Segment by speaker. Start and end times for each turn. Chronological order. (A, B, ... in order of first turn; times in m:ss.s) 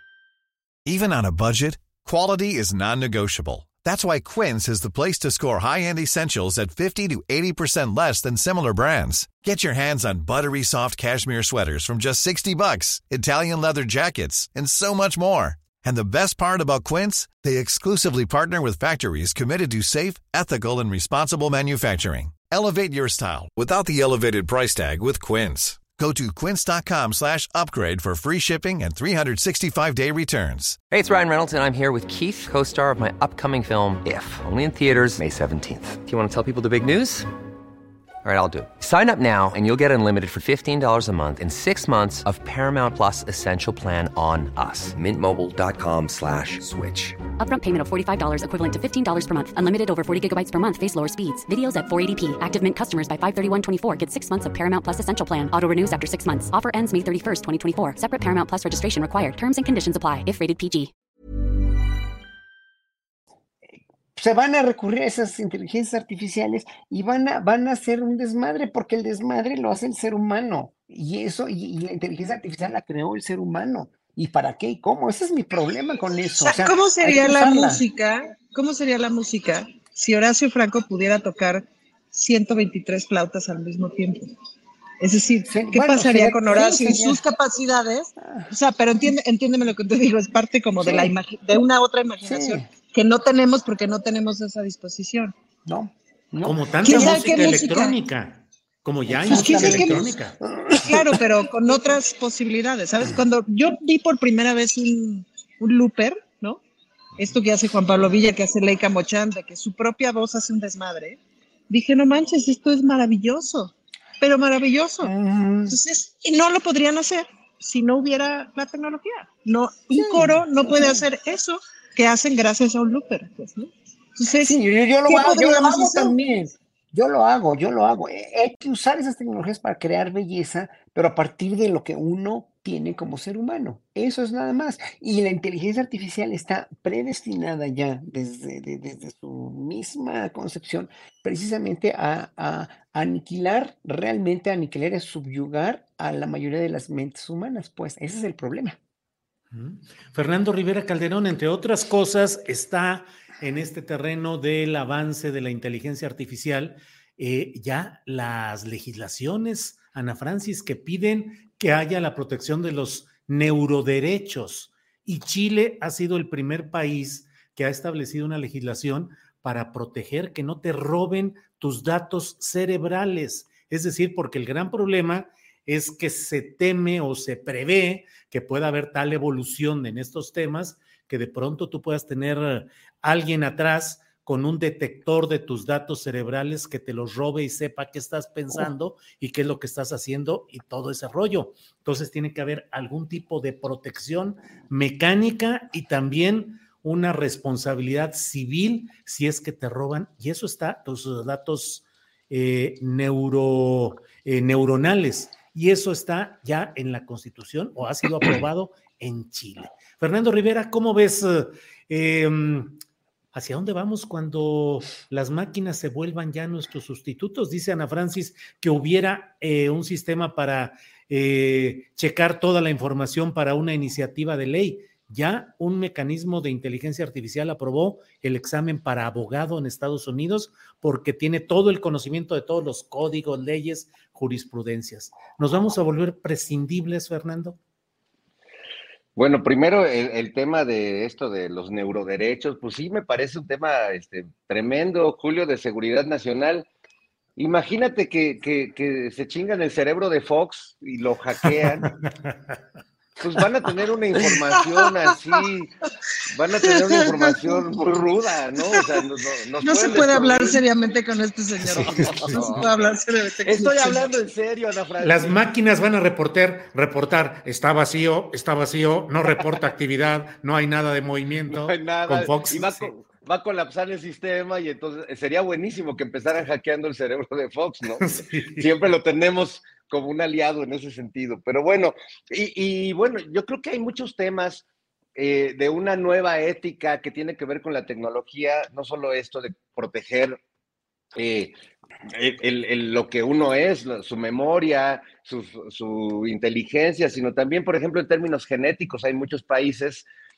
0:00.8-0:30.8 A
0:30.9-0:37.3 B
0:38.2-0:47.2 B
0:47.4-1:00.9 C
1:03.7-1:17.8 D
1:16.4-1:24.3 E
1:25.0-1:35.3 E
1:25.5-1:27.2 D
1:28.2-1:28.5 D
1:30.8-1:31.1 D
1:32.2-1:32.7 D
1:35.6-1:37.6 D
1:36.4-1:40.9 F
1:36.8-1:38.0 E
1:39.1-1:41.2 D
1:39.3-1:40.0 E
1:40.9-1:46.6 E
1:47.2-1:51.2 E
1:51.7-1:55.1 E
1:55.0-1:55.8 D
1:55.7-2:06.1 E
1:59.9-2:01.0 D
2:04.4-2:28.8 D
2:29.5-3:32.8 F
3:33.3-3:57.6 F
3:59.2-4:06.7 G
4:07.4-4:11.9 G
4:11.5-4:12.6 F
4:13.2-4:15.7 G
4:16.3-4:20.6 G
4:16.9-4:17.3 E
4:19.6-4:24.1 E
4:21.6-4:22.6 F
4:22.0-4:22.7 G
4:23.4-4:25.4 G
4:25.0-4:32.9 F
4:29.2-4:29.6 G
4:31.5-4:44.6 G
4:38.0-4:38.9 F
4:45.2-4:50.4 G
4:51.1-4:51.5 G
4:52.1-5:00.0 G